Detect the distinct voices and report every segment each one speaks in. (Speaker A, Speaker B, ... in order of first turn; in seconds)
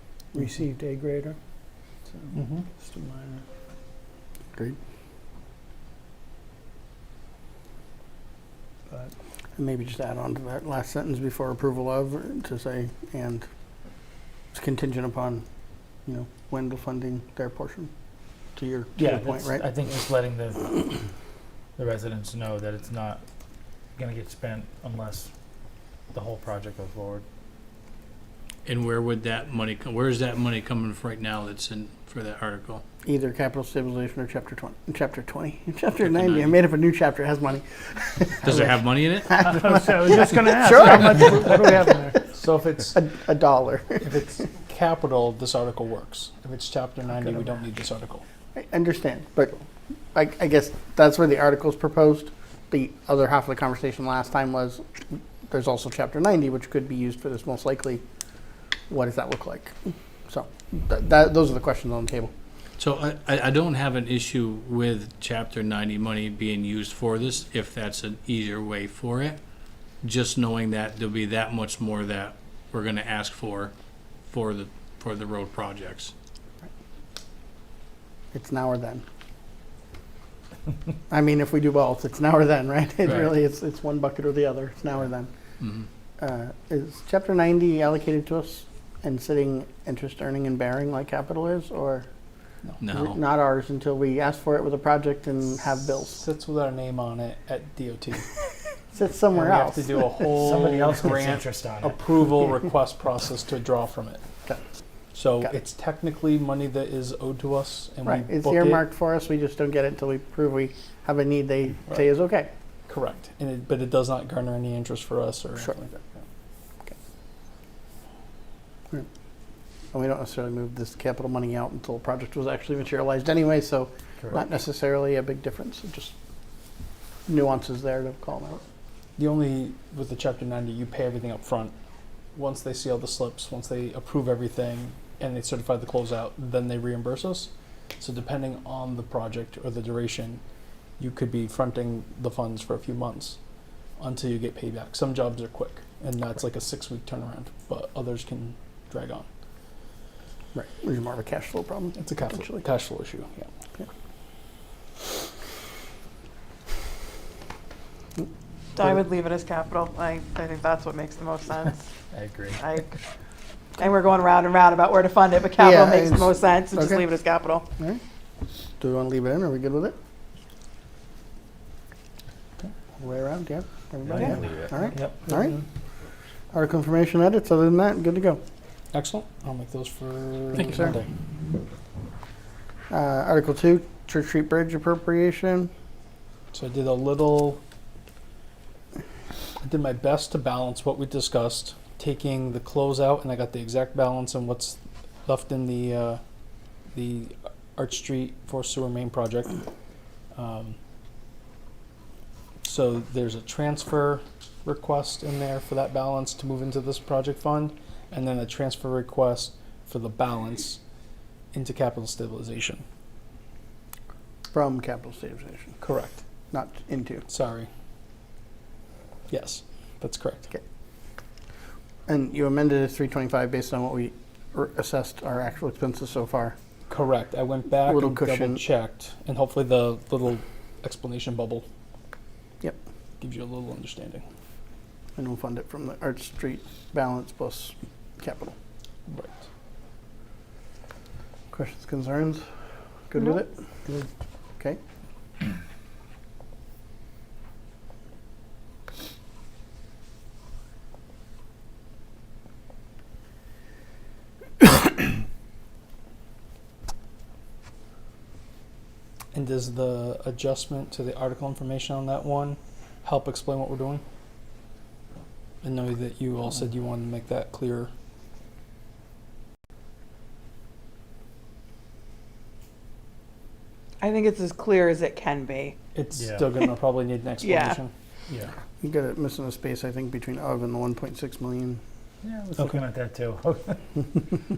Speaker A: 0.4-1.4, 2.2-3.4, 8.9-9.1, 39.4-42.2
Speaker B: 2.4-2.6, 42.3-43.0, 44.0-48.2, 95.8-98.3, 99.3-104.2, 105.1-108.8, 112.9-116.2, 129.2-131.7, 132.3-140.4, 141.0-143.4, 144.0-149.2, 152.0-153.5, 178.9-181.0, 186.5-187.6, 189.6-196.2, 196.9-199.6, 200.3-200.8, 202.6-210.8, 211.5-212.8, 215.8-216.2, 217.3-217.7, 219.3-220.5, 226.9-231.7, 233.2-234.2, 239.1-239.4, 259.3-264.0, 265.6-267.9, 275.9-277.9
Speaker C: 2.9-3.4, 158.8-161.8, 162.6-162.9, 163.8-167.7, 274.0-275.8, 277.4-277.8
Speaker D: 9.6-13.5, 14.5-15.4, 16.1-17.9, 18.6-19.7, 33.0-42.1, 42.9-44.3, 48.5-49.6, 50.1-54.8, 55.5-58.0, 58.9-59.8, 60.3-62.3, 78.3-79.0, 81.1-85.3, 86.2-92.1, 92.9-96.2, 98.9-100.2, 108.0-112.5, 119.9-126.1, 127.3-128.6, 150.5-152.6, 165.6-167.0, 168.8-170.0, 173.0-175.6, 176.5-178.4, 180.6-181.0, 182.9-185.7, 214.5-215.8, 216.5-217.2, 222.1-226.6, 227.8-228.6, 235.2-238.6, 241.5-242.4, 243.1-244.8, 278.8-281.8
Speaker E: 18.9-20.8, 21.8-23.2, 23.9-25.3, 26.1-27.2, 40.0-40.3, 41.3-41.5, 100.3-102.0, 162.1-162.6, 174.1-175.6, 276.1-276.4, 282.2-284.0
Speaker F: 28.6-32.8, 36.0-36.5, 38.4-39.4, 62.8-69.4, 70.0-73.7, 74.3-76.1, 85.6-85.9, 92.8-93.2